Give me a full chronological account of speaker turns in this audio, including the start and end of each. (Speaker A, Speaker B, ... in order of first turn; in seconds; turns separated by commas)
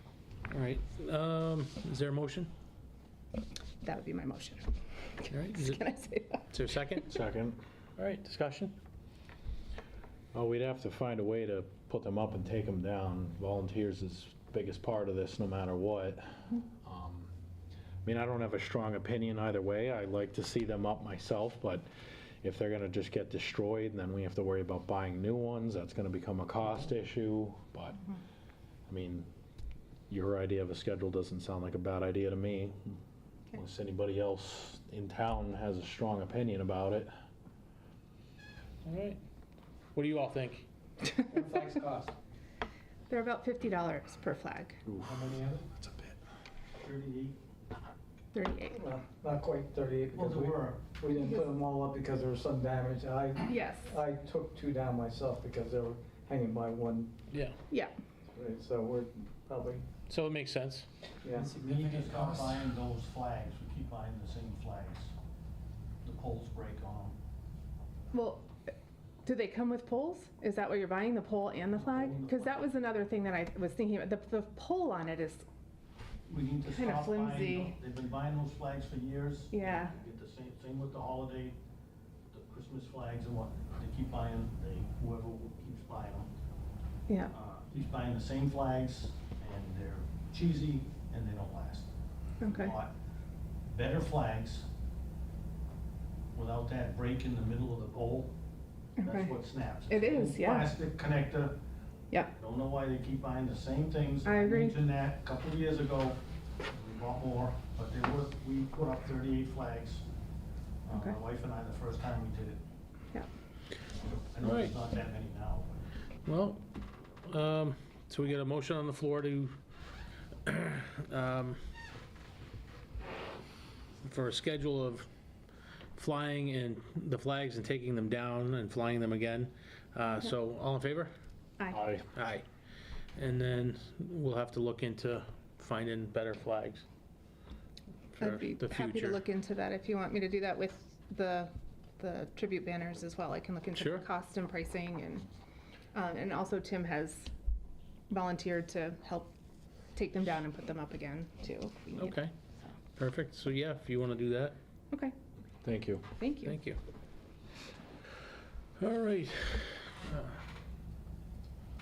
Speaker A: 0.5-2.5, Speaker B: 3.8-4.7, Speaker B: 5.2-6.5, Speaker A: 5.3-5.8, Speaker A: 6.5-7.1, Speaker C: 7.1-7.6, Speaker A: 8.0-8.8, Speaker C: 10.3-17.3, Speaker C: 18.0-21.9, Speaker C: 22.4-28.1, Speaker C: 28.9-29.3, Speaker C: 30.1-33.0, Speaker C: 33.5-37.1, Speaker A: 38.8-39.2, Speaker A: 40.0-40.7, Speaker D: 41.3-42.1, Speaker B: 41.3-41.6, Speaker B: 43.1-44.8, Speaker C: 44.9-46.2, Speaker D: 45.2-45.6, Speaker E: 46.8-47.4, Speaker B: 48.3-48.8, Speaker D: 48.7-57.1, Speaker E: 50.1-50.9, Speaker B: 53.5-54.0, Speaker A: 57.3-57.6, Speaker B: 57.7-58.0, Speaker D: 58.4-59.9, Speaker A: 60.1-60.9, Speaker D: 61.2-61.6, Speaker E: 61.5-65.2, Speaker E: 66.0-67.2, Speaker B: 68.1-68.5, Speaker B: 69.2-75.5, Speaker E: 71.8-72.7, Speaker E: 76.3-81.6, Speaker B: 76.7-77.8, Speaker B: 79.5-79.9, Speaker E: 82.3-86.3, Speaker E: 87.3-91.9, Speaker B: 92.4-92.8, Speaker E: 92.5-92.9, Speaker E: 93.6-94.7, Speaker E: 96.3-98.3, Speaker B: 99.0-99.3, Speaker E: 99.0-101.6, Speaker B: 99.8-100.7, Speaker E: 102.3-110.0, Speaker B: 104.2-104.8, Speaker E: 110.8-112.6, Speaker B: 110.9-111.2, Speaker E: 114.0-115.8, Speaker A: 114.4-114.8, Speaker A: 116.2-116.7, Speaker A: 117.2-119.5, Speaker A: 120.5-121.6, Speaker A: 124.0-125.1, Speaker A: 126.0-131.1, Speaker C: 131.7-132.1, Speaker A: 132.1-132.4, Speaker A: 133.2-136.8, Speaker A: 138.1-139.2, Speaker B: 138.2-145.3, Speaker A: 143.8-144.0, Speaker B: 145.9-147.3, Speaker B: 148.1-149.3, Speaker B: 149.9-152.2, Speaker A: 152.0-152.3, Speaker A: 153.0-154.6, Speaker C: 155.6-156.1, Speaker B: 156.2-156.6, Speaker A: 156.4-156.8, Speaker A: 158.8-160.4